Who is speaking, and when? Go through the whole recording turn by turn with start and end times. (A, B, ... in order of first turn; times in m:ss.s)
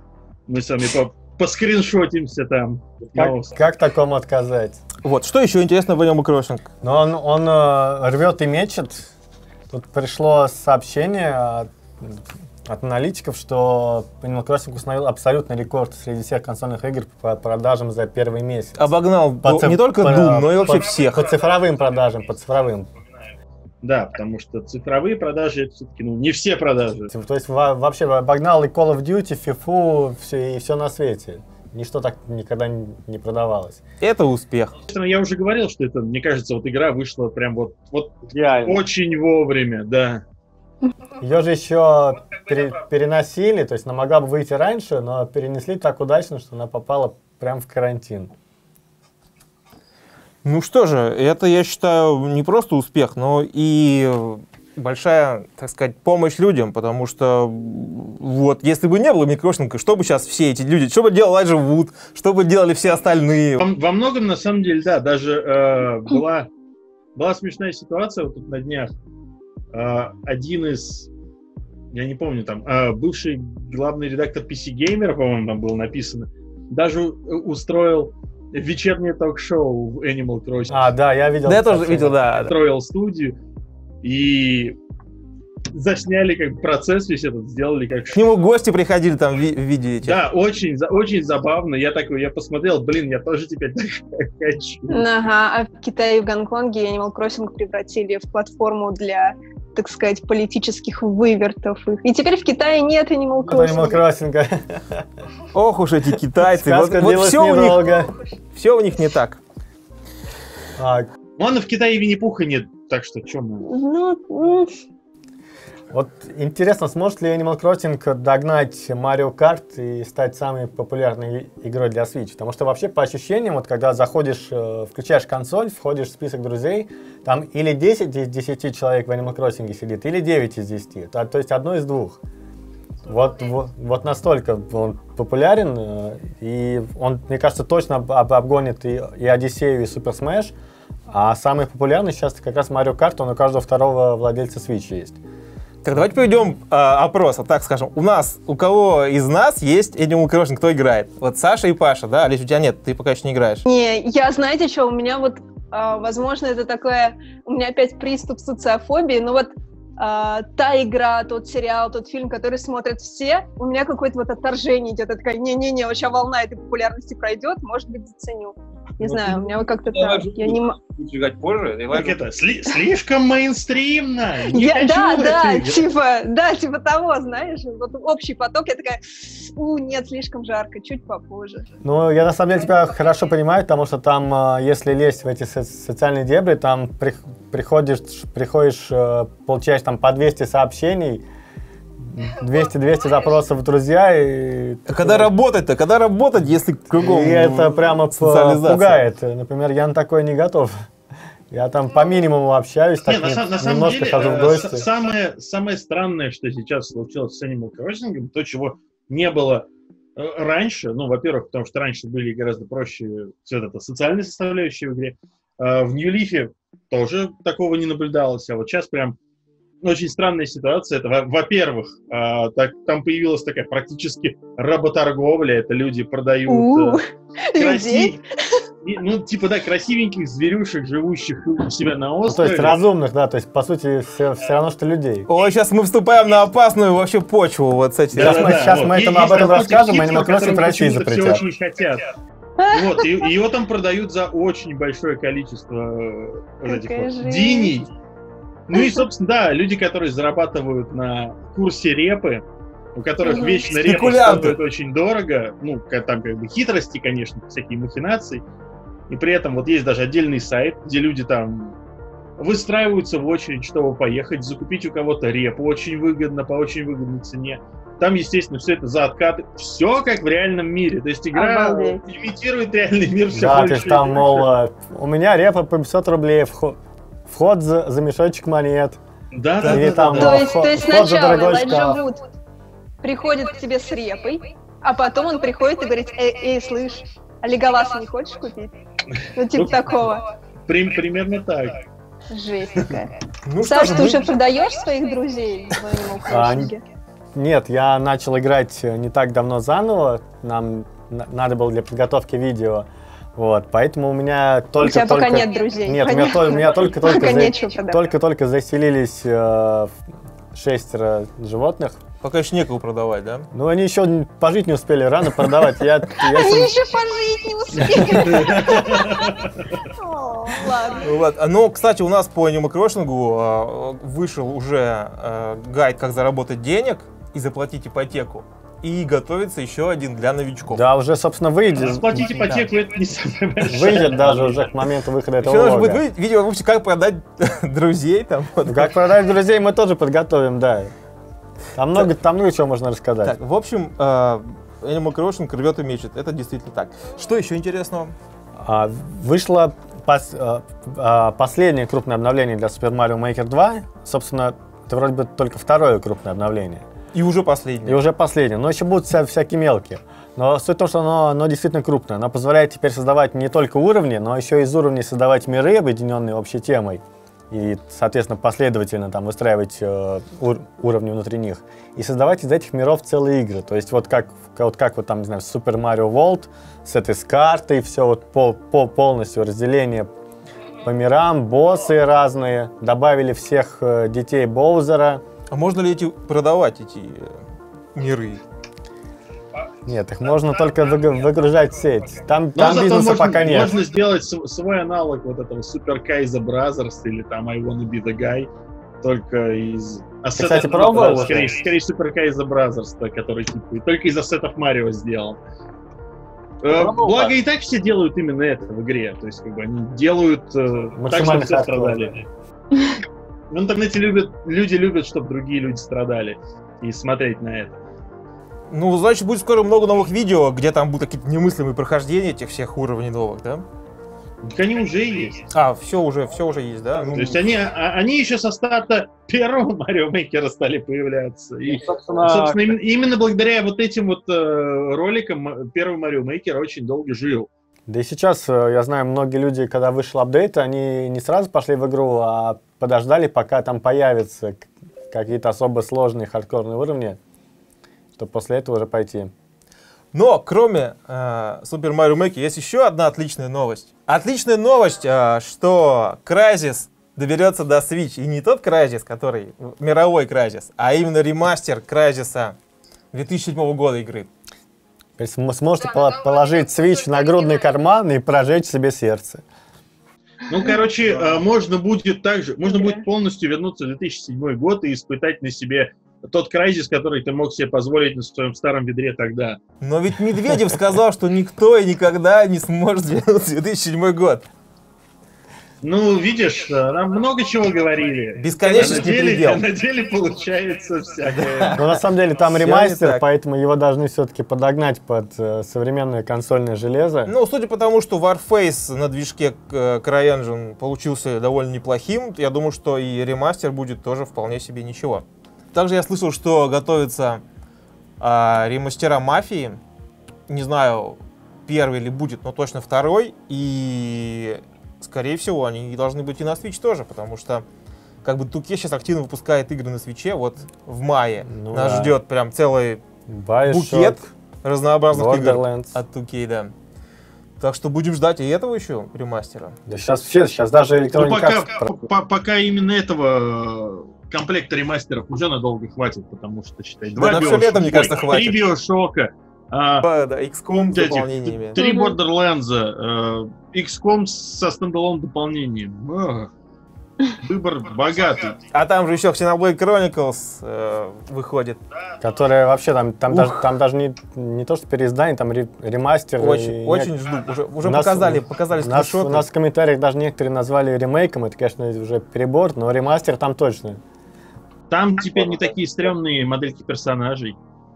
0:00.5-0:03.5 A
0:03.1-0:04.8 B
0:05.0-0:06.7 C
0:06.8-0:09.1 B
0:09.7-0:18.9 B
0:18.8-0:21.3 C
0:19.4-0:22.9 B
0:23.8-0:27.1 A
0:27.1-0:33.8 B
0:34.0-0:34.8 C
0:34.9-0:40.2 A
0:38.3-0:38.8 B
0:41.2-0:48.3 B
0:50.4-1:03.6 C
1:03.6-1:06.5 A
1:07.1-1:08.9 A
1:09.7-1:11.1 A
1:11.9-1:20.9 A
1:20.7-1:22.2 B
1:21.4-1:22.5 C
1:22.4-1:23.4 A
1:24.0-1:24.8 A
1:25.7-1:28.2 A
1:28.1-1:30.2 C
1:30.0-1:35.0 A
1:34.9-1:44.0 D
1:43.4-1:45.0 B
1:45.5-1:48.0 C
1:46.4-1:48.1 B
1:48.5-1:49.4 C
1:50.8-1:51.1 B
1:51.4-1:53.7 A
1:53.7-1:54.8 D
1:55.9-2:12.2 B
2:13.0-2:20.5 B
2:21.1-2:25.2 B
2:25.8-2:33.6 C
2:33.6-2:50.8 D
2:49.0-2:52.2 C
2:51.9-2:55.8 A
2:54.5-3:01.7 D
3:01.8-3:11.2 B
3:12.0-3:15.3 B
3:14.9-3:19.0 C
3:17.0-3:20.7 B
3:21.5-3:24.8 B
3:23.0-3:39.2 A
3:39.8-3:47.0 A
3:46.5-3:48.6 D
3:47.6-3:48.2 A
3:48.8-3:52.8 A
3:52.3-3:55.3 B
3:55.3-3:58.8 C
3:58.1-4:01.4 B
3:58.1-4:02.0 A
4:02.6-4:03.2 D
4:02.7-4:07.9 A
4:06.6-4:07.7 D
4:08.7-4:12.4 A
4:08.7-4:09.0 D
4:12.9-4:18.4 A
4:13.2-4:13.6 D
4:13.7-4:14.6 C
4:19.1-4:21.8 A
4:22.4-4:34.5 A
4:31.3-4:32.0 D
4:33.3-4:39.0 B
4:39.3-4:40.6 A
4:39.6-4:40.3 C
4:39.6-4:42.0 B
4:40.1-4:42.2 D
4:43.0-4:48.7 D
4:49.3-4:50.2 D
4:49.5-4:50.1 A
4:50.7-4:51.7 A
4:52.3-4:56.8 D
4:53.4-4:54.3 C
4:56.2-4:56.7 B
4:57.3-5:10.0 B
5:04.8-5:08.0 D
5:10.5-5:12.0 B
5:12.2-5:13.5 C
5:13.5-5:16.8 B
5:16.2-5:21.0 D
5:17.9-5:18.8 B
5:18.2-5:19.3 A
5:21.0-5:30.8 C
5:30.7-5:32.6 B
5:31.8-5:34.6 A
5:33.6-5:36.0 B
5:35.4-5:38.9 C
5:38.6-5:40.9 B
5:41.7-5:43.4 B
5:43.2-5:48.1 C
5:48.6-5:56.8 B
5:57.1-5:58.0 C
5:57.8-6:20.1 B
6:20.8-6:25.2 B
6:25.5-6:27.4 C
6:27.9-6:28.4 C
6:29.8-6:33.8 B
6:32.5-6:38.5 A
6:39.0-6:45.4 A
6:40.3-6:41.6 B
6:46.6-6:52.2 A
6:46.7-6:47.4 B
6:50.9-6:52.2 B
6:53.5-6:57.8 A
6:58.7-7:03.6 C
7:04.4-7:05.4 A
7:05.5-7:07.5 C
7:07.0-7:17.5 A
7:11.9-7:12.7 B
7:17.9-7:27.2 B
7:28.2-7:29.3 B
7:30.1-7:42.6 C
7:43.1-7:44.3 C
7:45.2-7:49.4 B
7:50.5-7:59.6 A
7:52.7-7:53.0 D
7:59.8-8:04.4 C
8:05.8-8:11.8 A
8:08.4-8:09.6 C
8:11.4-8:13.2 C
8:11.7-8:17.3 B
8:17.3-8:27.4 C
8:28.2-8:29.8 C
8:30.5-8:37.6 C
8:38.2-8:43.0 C
8:41.4-8:42.2 B
8:43.3-8:44.2 B
8:43.7-8:46.7 C
8:45.1-8:46.0 B
8:47.6-8:49.8 C
8:49.9-8:52.0 B
8:51.1-9:00.0 A
8:57.2-8:58.6 C
9:00.0-9:01.8 C
9:00.9-9:06.5 A
9:01.8-9:02.2 D
9:07.3-9:08.6 A
9:08.7-9:11.8 C
9:12.2-9:17.1 B
9:13.3-9:13.7 C
9:16.4-9:19.4 C
9:17.8-9:24.0 B
9:24.9-9:27.6 A